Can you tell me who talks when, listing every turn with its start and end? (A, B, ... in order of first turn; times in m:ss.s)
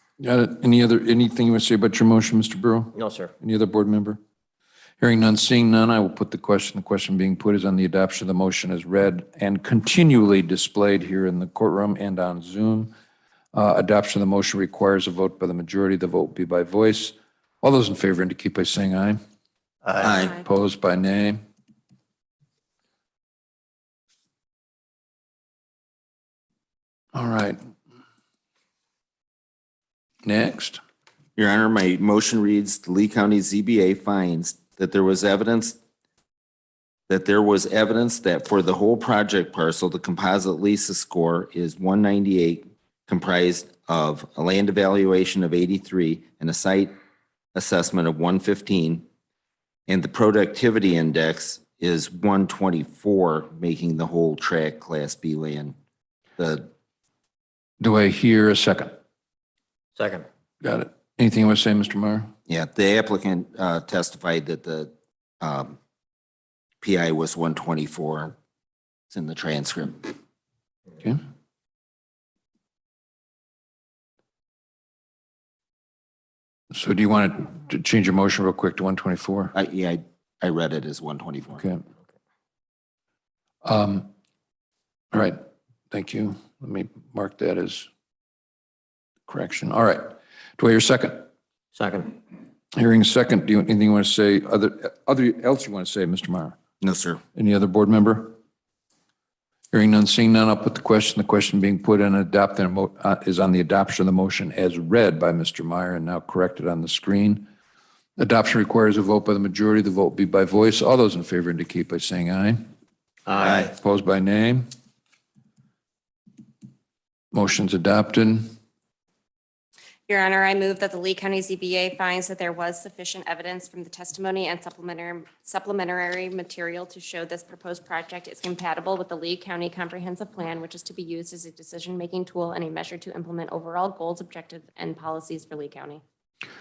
0:00.2-0:04.2 A
0:03.0-0:03.3 B
0:05.0-0:12.9 A
0:13.5-0:19.2 A
0:19.8-0:20.1 B
0:20.0-0:20.4 C
0:20.3-0:21.4 A
0:27.1-0:27.6 A
0:30.2-0:30.8 A
0:31.4-0:35.8 C
0:37.1-0:46.9 C
0:47.6-0:49.1 C
0:49.9-0:55.8 C
0:56.4-0:56.7 C
0:57.8-0:59.0 A
1:00.0-1:00.3 B
1:00.6-1:02.3 A
1:02.5-1:05.8 C
1:06.8-1:08.4 C
1:09.1-1:10.2 C
1:16.7-1:19.5 A
1:19.5-1:21.6 C
1:23.6-1:24.1 A
1:25.1-1:25.4 A
1:25.9-1:27.9 A
1:29.3-1:31.3 A
1:31.7-1:32.2 B
1:32.7-1:36.6 A
1:36.8-1:37.2 C
1:37.4-1:38.3 A
1:39.7-1:47.5 A
1:48.2-1:52.6 A
1:53.3-1:53.7 B
1:53.4-1:53.7 C
1:53.7-1:54.7 A
1:57.3-1:58.5 A
2:00.1-2:16.0 D